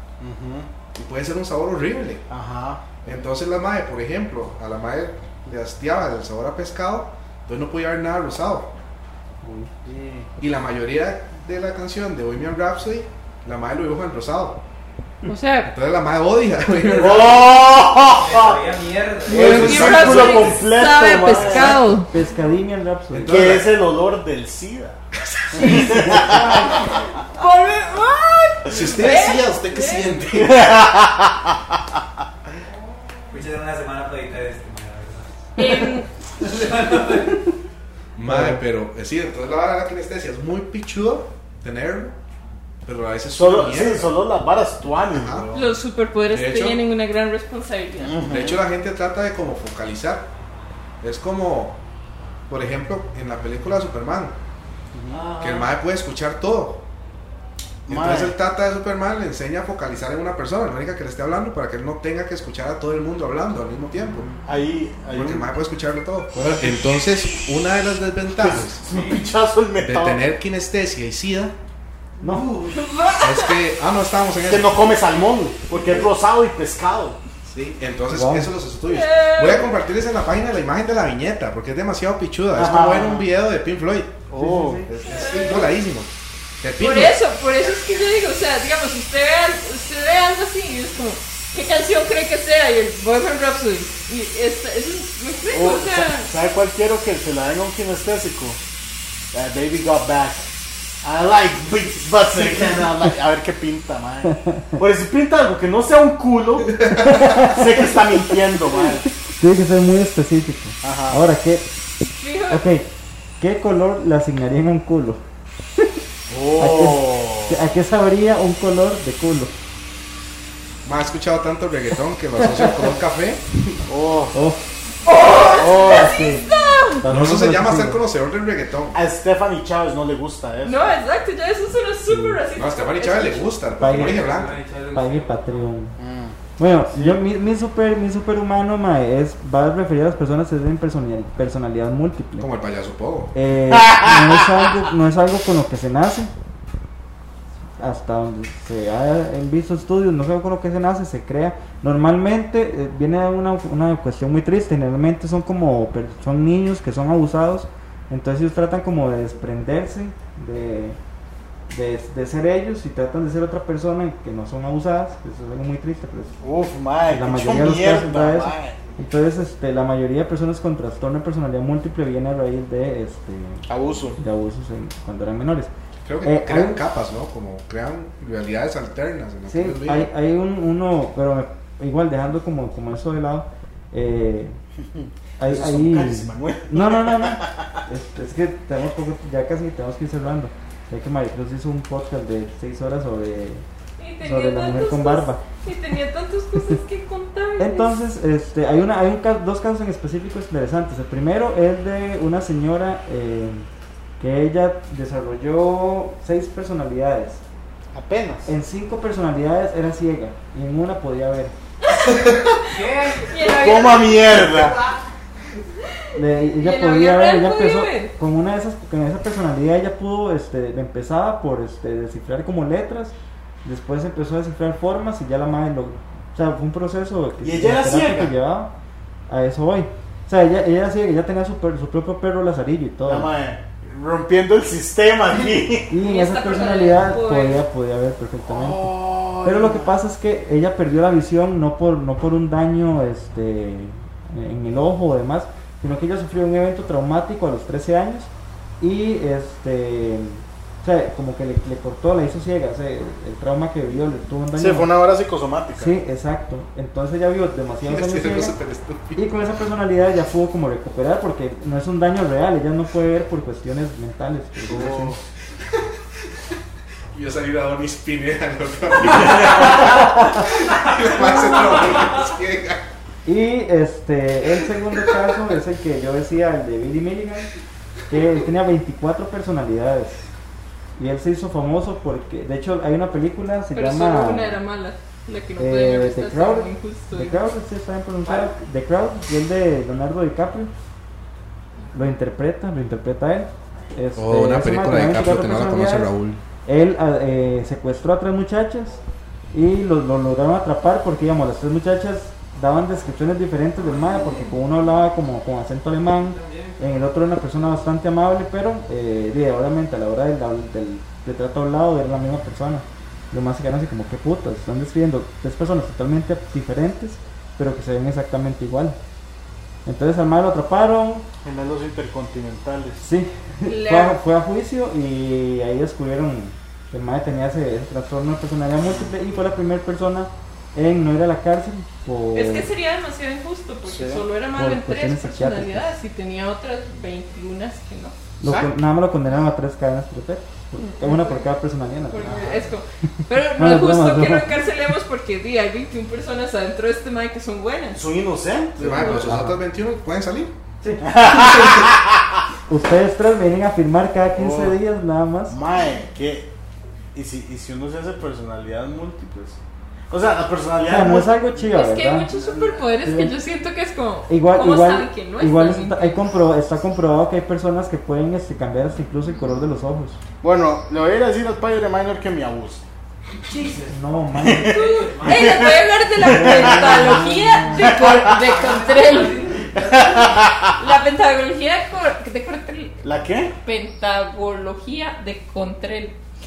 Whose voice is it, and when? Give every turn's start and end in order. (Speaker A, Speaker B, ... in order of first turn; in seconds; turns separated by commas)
Speaker A: 0.2-0.7, Speaker B: 0.9-2.2, Speaker A: 2.3-2.9, Speaker B: 3.0-8.7, Speaker C: 9.4-9.7, Speaker A: 9.8-10.3, Speaker B: 10.4-14.6, Speaker D: 15.2-15.7, Speaker B: 15.7-17.5, Speaker A: 16.9-18.7, Speaker E: 18.1-20.7, Speaker A: 19.3-21.8, Speaker D: 19.3-22.1, Speaker B: 19.3-20.5, Speaker E: 21.4-21.7, Speaker C: 22.1-23.5, Speaker B: 23.1-23.7, Speaker A: 23.3-25.0, Speaker B: 25.2-26.0, Speaker A: 25.5-26.8, Speaker C: 25.6-26.9, Speaker D: 27.3-30.1, Speaker B: 28.7-30.8, Speaker A: 30.3-31.5, Speaker E: 33.3-35.3, Speaker D: 35.6-36.1, Speaker E: 36.4-37.5, Speaker B: 38.2-42.1, Speaker C: 38.2-38.6, Speaker B: 42.9-44.2, Speaker A: 43.3-45.7, Speaker B: 45.1-45.5, Speaker D: 45.5-48.2, Speaker B: 46.3-46.8, Speaker A: 48.0-48.6, Speaker B: 48.2-50.3, Speaker B: 51.0-51.8, Speaker B: 52.5-54.4, Speaker A: 54.9-55.2, Speaker E: 55.1-55.7, Speaker B: 55.4-56.8, Speaker A: 57.9-58.4, Speaker B: 57.9-64.3, Speaker A: 64.4-65.5, Speaker B: 65.1-68.8, Speaker C: 66.3-66.7, Speaker A: 68.4-70.2, Speaker E: 68.9-69.2, Speaker B: 69.8-71.5, Speaker C: 72.2-72.5, Speaker E: 72.2-72.8, Speaker D: 72.7-73.6, Speaker B: 73.2-74.8, Speaker A: 74.5-77.2, Speaker B: 77.5-84.3, Speaker C: 78.1-78.5, Speaker D: 78.9-79.7, Speaker A: 82.5-83.3, Speaker A: 84.3-85.0, Speaker C: 84.3-85.0, Speaker B: 84.9-87.2, Speaker D: 85.0-85.7, Speaker D: 86.8-96.3, Speaker A: 95.5-98.6, Speaker A: 99.3-100.4, Speaker A: 101.0-109.1, Speaker C: 106.9-108.0, Speaker C: 109.1-111.7, Speaker A: 110.8-111.2, Speaker D: 112.1-112.7, Speaker C: 112.5-112.9, Speaker C: 113.4-115.2, Speaker A: 116.3-117.6, Speaker C: 116.6-119.5, Speaker B: 120.8-123.8, Speaker C: 122.4-122.9, Speaker A: 123.9-124.4, Speaker C: 124.3-124.6, Speaker D: 125.1-127.0, Speaker A: 125.5-126.2, Speaker C: 125.8-126.5, Speaker C: 127.0-128.0, Speaker B: 127.1-129.0, Speaker A: 128.9-130.9, Speaker D: 130.6-133.5, Speaker C: 132.1-132.4, Speaker B: 132.6-134.6, Speaker C: 133.8-134.3, Speaker E: 134.0-135.6, Speaker C: 134.9-135.9, Speaker A: 136.0-136.4, Speaker C: 136.6-142.5, Speaker B: 142.4-143.3, Speaker C: 143.3-146.3, Speaker A: 143.7-144.4, Speaker C: 147.8-161.0, Speaker C: 161.7-166.3, Speaker A: 166.4-168.8, Speaker C: 167.1-175.7, Speaker A: 173.7-174.2, Speaker B: 176.1-180.1, Speaker C: 176.2-176.8, Speaker C: 179.5-184.6, Speaker A: 184.9-187.7, Speaker C: 185.4-193.6, Speaker D: 194.0-197.9, Speaker C: 194.2-195.4, Speaker C: 197.6-203.7, Speaker C: 204.2-207.4, Speaker A: 207.9-208.5, Speaker C: 208.5-211.5, Speaker D: 211.8-214.6, Speaker E: 212.6-213.4, Speaker A: 213.4-214.8, Speaker C: 216.2-228.7, Speaker D: 216.5-218.1, Speaker A: 227.4-228.3, Speaker C: 229.3-233.3, Speaker A: 233.1-236.0, Speaker C: 235.9-248.3, Speaker D: 236.0-237.6, Speaker A: 238.5-239.9, Speaker C: 248.8-254.9, Speaker A: 254.6-255.9, Speaker C: 255.8-258.6, Speaker B: 257.8-259.2, Speaker C: 259.1-265.1, Speaker A: 264.7-265.2, Speaker B: 267.1-272.8, Speaker C: 269.8-270.3, Speaker C: 273.2-277.5, Speaker C: 278.1-280.2, Speaker C: 281.0-284.6, Speaker D: 283.7-287.4, Speaker C: 285.6-290.7, Speaker C: 291.9-296.1, Speaker B: 294.2-296.4, Speaker C: 296.6-299.0, Speaker C: 299.5-319.0, Speaker E: 304.1-304.6, Speaker E: 306.3-307.0, Speaker C: 319.9-321.3, Speaker A: 321.4-323.0, Speaker C: 323.0-332.7, Speaker D: 323.6-324.2, Speaker D: 332.3-338.2, Speaker A: 333.9-334.2, Speaker C: 334.5-335.9, Speaker C: 338.4-342.5, Speaker A: 338.4-338.7, Speaker D: 340.8-341.4, Speaker D: 342.1-348.0, Speaker A: 342.2-342.6, Speaker C: 343.4-344.5, Speaker A: 347.9-349.4, Speaker B: 348.8-350.5, Speaker C: 349.1-349.6, Speaker A: 351.0-352.1, Speaker B: 351.3-351.9, Speaker C: 352.7-355.6, Speaker A: 354.4-354.8, Speaker A: 355.5-356.5, Speaker A: 357.1-359.6, Speaker A: 360.1-361.4, Speaker C: 360.9-362.3, Speaker D: 361.7-366.2, Speaker C: 363.0-363.4, Speaker C: 364.3-370.2, Speaker A: 370.4-372.9, Speaker E: 373.5-374.0, Speaker C: 373.9-374.8, Speaker A: 374.4-377.2, Speaker E: 374.6-375.7, Speaker D: 374.6-379.5, Speaker C: 376.2-378.0, Speaker A: 377.8-378.3, Speaker E: 378.0-380.4, Speaker A: 379.7-380.7, Speaker D: 380.8-383.0, Speaker A: 383.0-383.5, Speaker D: 383.6-386.2